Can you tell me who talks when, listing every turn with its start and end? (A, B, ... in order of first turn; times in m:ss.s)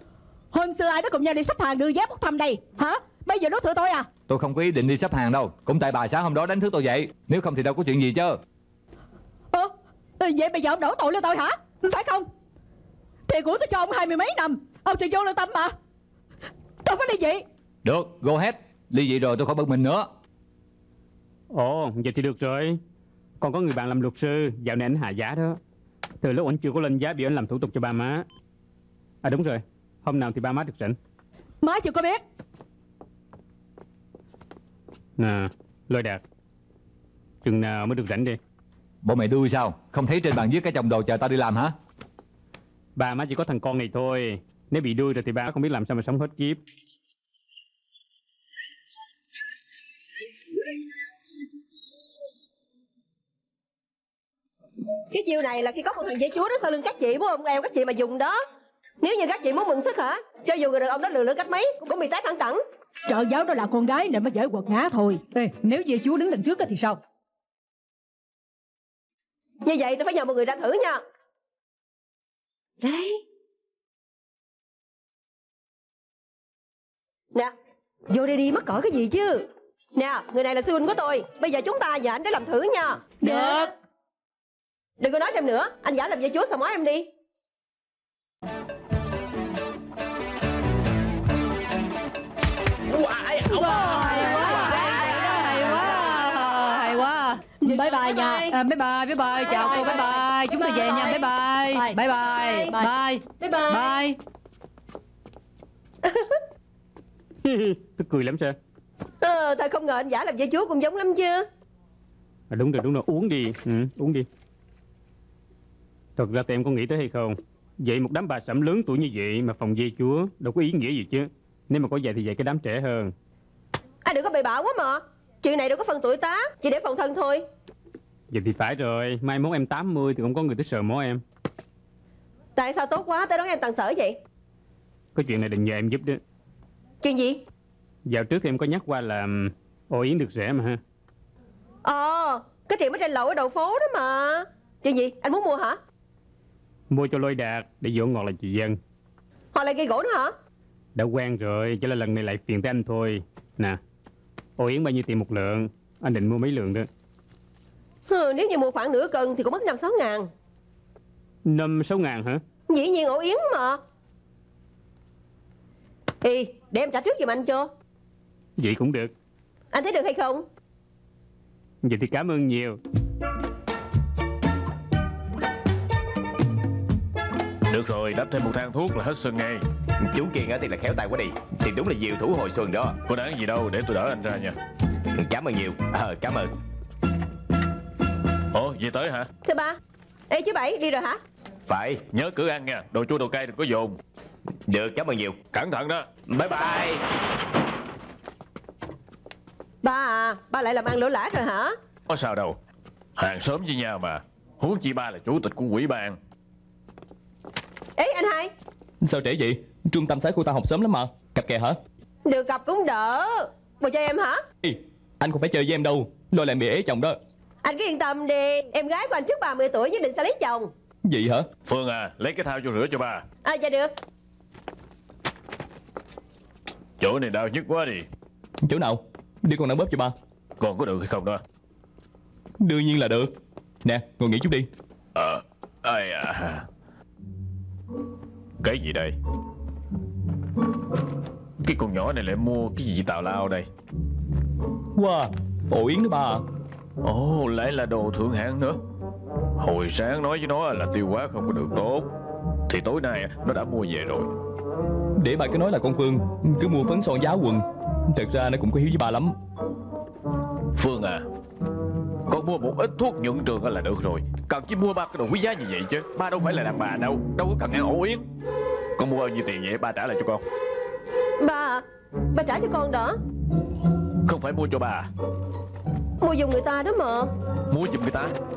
0:00.5-0:04.1 A
0:04.3-0:08.4 B
0:09.5-0:12.3 A
0:13.3-0:15.7 A
0:16.8-0:17.4 A
0:17.8-0:20.1 B
0:21.5-0:22.8 C
0:23.4-0:25.6 C
0:26.2-0:28.3 C
0:29.2-0:31.0 C
0:31.6-0:32.2 A
0:35.2-0:36.2 C
0:37.4-0:38.4 C
0:39.0-0:41.7 B
0:43.0-0:46.6 C
0:55.1-0:58.4 D
0:59.0-1:02.6 D
1:03.0-1:05.2 A
1:05.3-1:07.0 E
1:09.6-1:11.0 D
1:12.8-1:13.2 D
1:18.1-1:23.1 D
1:23.2-1:23.7 A
1:23.2-1:23.7 E
1:25.0-1:27.1 D
1:32.9-1:33.4 F
1:33.5-1:44.2 E
1:33.7-1:34.9 A
1:37.6-1:38.5 A
1:39.3-1:42.9 A
1:42.4-1:42.7 D
1:43.4-1:43.8 A
1:46.0-1:46.4 D
1:47.4-1:48.6 C
1:49.2-1:51.5 D
1:52.5-1:54.3 C
1:56.2-2:03.1 C
2:04.0-2:07.4 D
2:08.3-2:11.2 C
2:12.6-2:14.2 D
2:15.1-2:16.2 C
2:17.0-2:17.4 D
2:18.1-2:20.8 C
2:21.8-2:25.8 D
2:26.9-2:28.8 C
2:29.5-2:30.3 D
2:30.9-2:33.8 C
2:34.6-2:36.9 C
2:38.1-2:40.3 D
2:41.5-2:42.4 C
2:42.7-2:43.8 D
2:46.2-2:47.7 D
2:48.6-2:49.1 C
2:49.7-2:50.4 D
2:51.8-2:52.8 C
2:57.7-2:59.6 G
3:00.0-3:03.0 F
3:03.1-3:04.6 G
3:05.1-3:06.5 F
3:08.5-3:09.3 G
3:09.4-3:09.8 D
3:10.3-3:11.2 D
3:11.7-3:12.0 F
3:12.1-3:14.0 G
3:14.7-3:15.4 F
3:15.5-3:16.1 G
3:16.3-3:17.0 F
3:19.8-3:21.7 D
3:22.1-3:22.6 G
3:23.2-3:26.2 G
3:28.0-3:28.5 D
3:29.0-3:31.8 H
3:32.2-3:34.4 D
3:34.6-3:37.2 H
3:37.6-3:40.7 D
3:41.0-3:41.5 H
3:41.6-3:43.2 G
3:43.4-3:43.9 D
3:47.0-3:48.0 G
3:48.6-3:50.1 H
3:50.6-3:51.4 G
3:52.6-3:54.7 H
3:55.1-3:56.7 G
3:58.6-3:59.1 G
4:01.6-4:03.7 G
4:05.0-4:06.4 H
4:07.0-4:08.8 G
4:09.6-4:12.1 G
4:12.7-4:14.3 G
4:15.2-4:19.4 H
4:20.8-4:21.2 G
4:22.3-4:28.2 G
4:29.0-4:30.4 G
4:31.4-4:33.2 D
4:34.2-4:35.1 G
4:36.2-4:37.3 D
4:37.7-4:38.3 G